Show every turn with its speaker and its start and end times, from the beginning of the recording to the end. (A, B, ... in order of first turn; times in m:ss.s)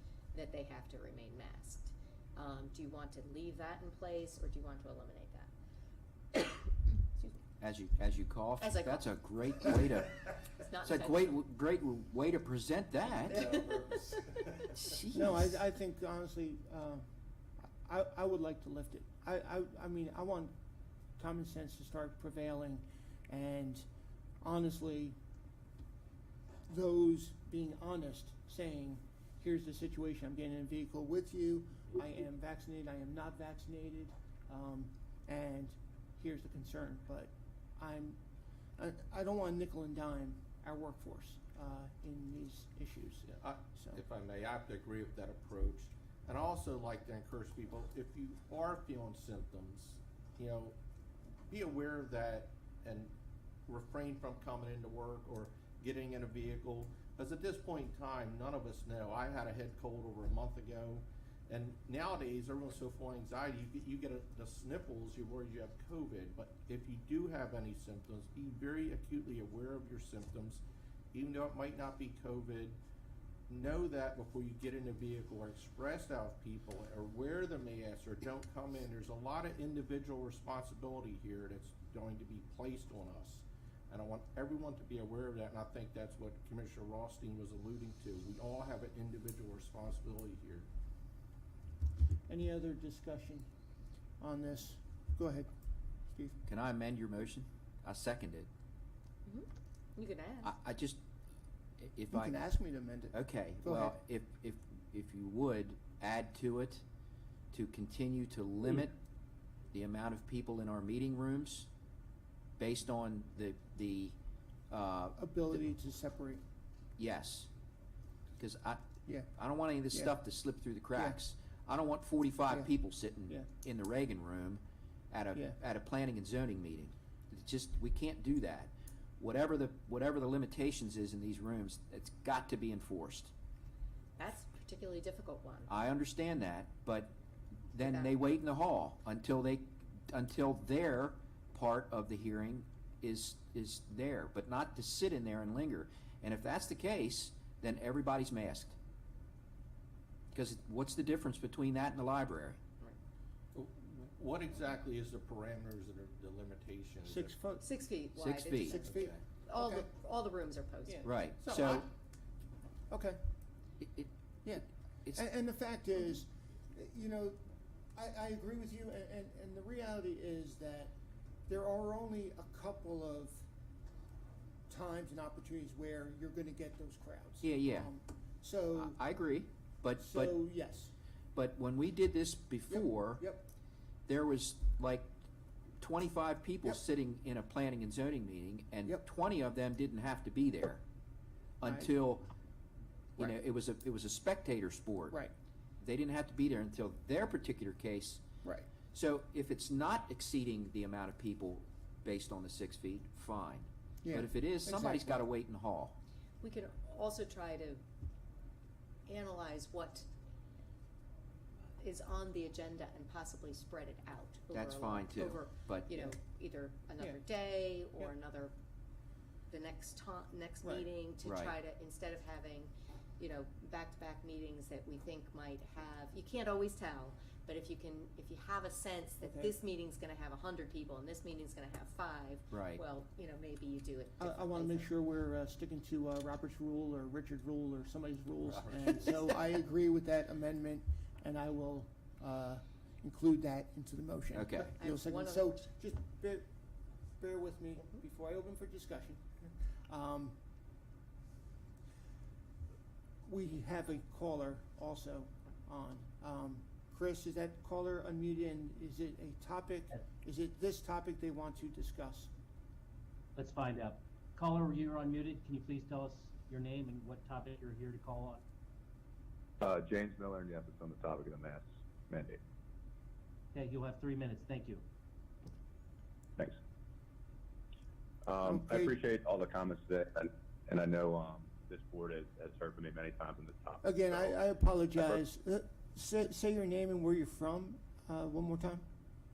0:00.3-0:05.5 A
0:06.3-0:07.4 A
0:07.6-0:10.2 B
0:08.6-0:09.1 A
0:10.5-0:11.4 A
0:10.8-0:13.6 B
0:13.3-0:14.4 A
0:14.6-0:15.6 B
0:15.1-0:17.0 C
0:17.8-0:20.5 C
0:21.2-0:23.8 C
0:24.4-0:25.2 C
0:26.7-0:38.2 C
0:38.8-0:44.0 C
0:43.3-0:50.8 D
0:51.5-0:53.1 D
0:53.7-1:10.6 D
1:11.1-1:12.8 D
1:13.5-1:30.7 D
1:32.3-1:33.5 C
1:34.2-1:35.5 C
1:36.1-1:36.4 C
1:36.4-1:38.5 B
1:39.2-1:40.5 A
1:40.4-1:41.0 B
1:41.8-1:42.4 B
1:42.1-1:44.0 C
1:43.1-1:46.8 B
1:47.5-1:48.9 B
1:49.7-1:51.7 B
1:52.6-1:54.1 B
1:54.7-1:55.6 B
1:55.2-1:56.4 C
1:57.0-1:57.5 B
1:58.4-2:13.3 B
1:59.9-2:00.2 C
2:14.2-2:15.7 A
2:15.7-2:17.1 B
2:17.7-2:28.8 B
2:17.8-2:18.1 A
2:30.3-2:32.6 B
2:33.5-2:37.4 D
2:37.0-2:37.6 C
2:37.6-2:41.1 A
2:38.2-2:38.8 B
2:38.6-2:39.9 C
2:40.8-2:41.1 C
2:41.0-2:41.9 B
2:41.4-2:41.8 D
2:42.9-2:43.2 C
2:43.8-2:45.2 B
2:44.4-2:47.4 C
2:47.9-2:50.9 C
2:51.5-2:53.5 C
2:54.7-2:59.0 C
2:57.4-2:57.9 B
2:58.7-3:00.4 B
3:00.0-3:00.9 C
3:01.3-3:03.3 B
3:02.7-3:03.4 C
3:04.1-3:05.1 B
3:05.8-3:10.8 B
3:11.6-3:12.3 B
3:11.6-3:11.9 C
3:13.2-3:15.2 B
3:15.8-3:18.2 B
3:18.9-3:25.9 B
3:24.0-3:25.2 C
3:26.4-3:27.8 A
3:29.1-3:30.1 A
3:31.8-3:38.5 A
3:34.5-3:36.1 B
3:39.5-3:54.9 A
3:41.2-3:41.5 B
3:49.2-3:49.5 C
3:52.5-3:52.8 B
3:54.2-4:06.5 C
4:04.3-4:04.7 B
4:04.8-4:05.6 A
4:07.2-4:10.4 C
4:13.2-4:22.3 C
4:23.4-4:28.4 E
4:29.6-4:32.4 F
4:33.5-4:34.8 E
4:38.2-4:44.4 F
4:38.4-4:38.9 C
4:43.8-4:48.8 C